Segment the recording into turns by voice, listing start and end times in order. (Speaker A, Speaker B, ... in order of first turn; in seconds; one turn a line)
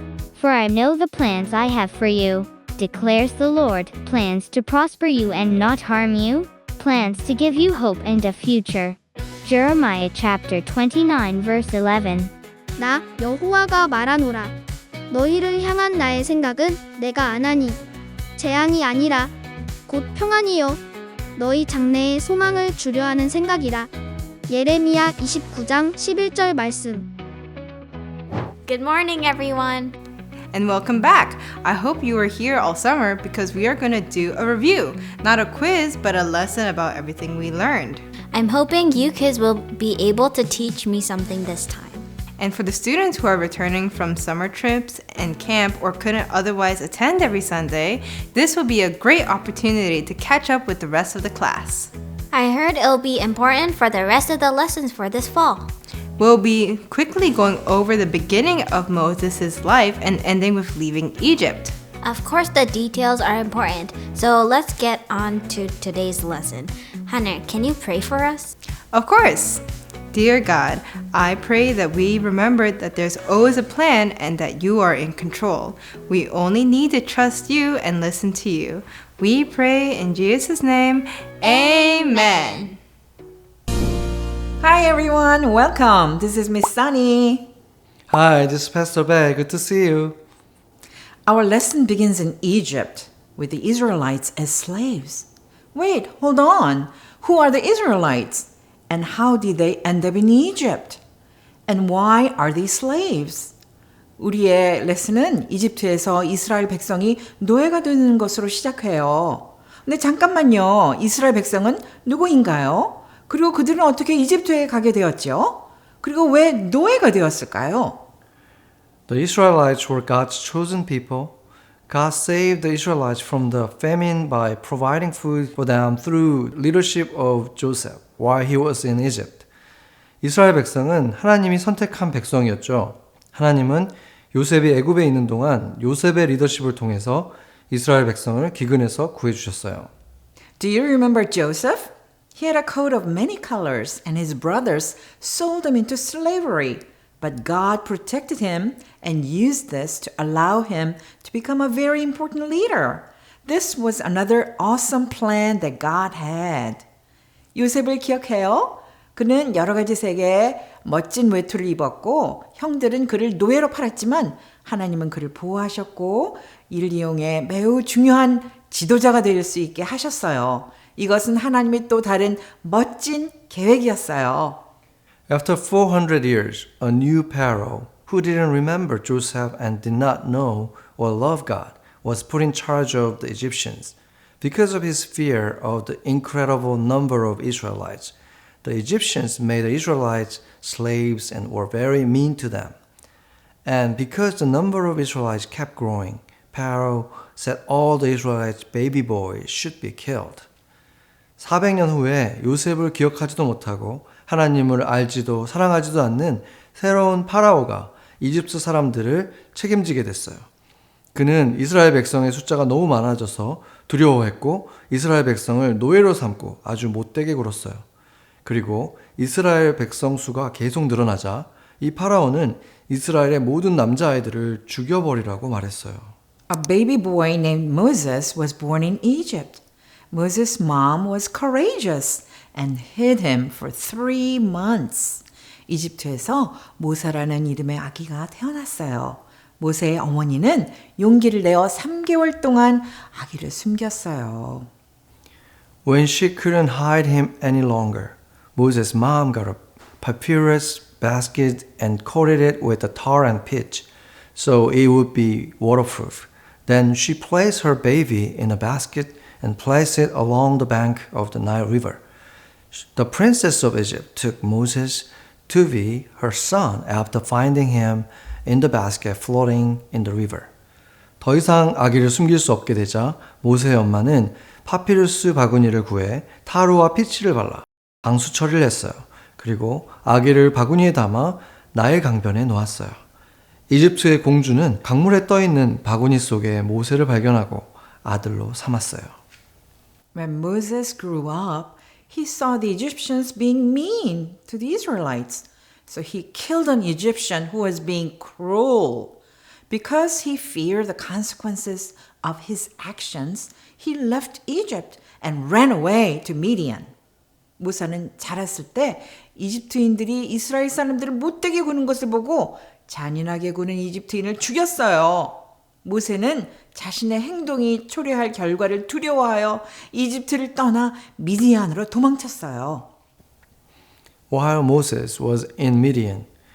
Speaker A: 0.4-12.3
Speaker B: 12.8-14.5
Speaker B: 15.1-17.8
Speaker B: 18.4-19.3
Speaker B: 19.9-20.8
Speaker B: 21.4-23.9
Speaker B: 24.5-27.1
Speaker C: 28.7-30.0
Speaker D: 30.5-38.0
Speaker C: 38.3-42.1
Speaker D: 42.4-51.9
Speaker C: 52.3-55.7
Speaker D: 56.2-61.8
Speaker C: 62.0-68.5
Speaker D: 68.9-82.8
Speaker E: 84.6-87.5
Speaker F: 88.1-90.2
Speaker E: 91.3-101.0
Speaker E: 101.7-103.5
Speaker E: 104.2-118.0
Speaker F: 119.1-121.4
Speaker F: 121.9-129.5
Speaker F: 130.2-139.9
Speaker E: 140.6-156.8
Speaker E: 157.5-174.7
Speaker F: 175.3-192.8
Speaker F: 193.7-200.5
Speaker F: 201.4-210.5
Speaker F: 211.1-217.8
Speaker F: 218.4-226.1
Speaker E: 226.5-244.7
Speaker F: 245.8-262.0
Speaker F: 262.8-270.5
Speaker F: 271.2-283.0
Speaker F: 283.7-289.1
Speaker E: 290.1-299.2
Speaker E: 299.7-306.9
Speaker E: 307.6-322.9
Speaker F: 324.3-326.3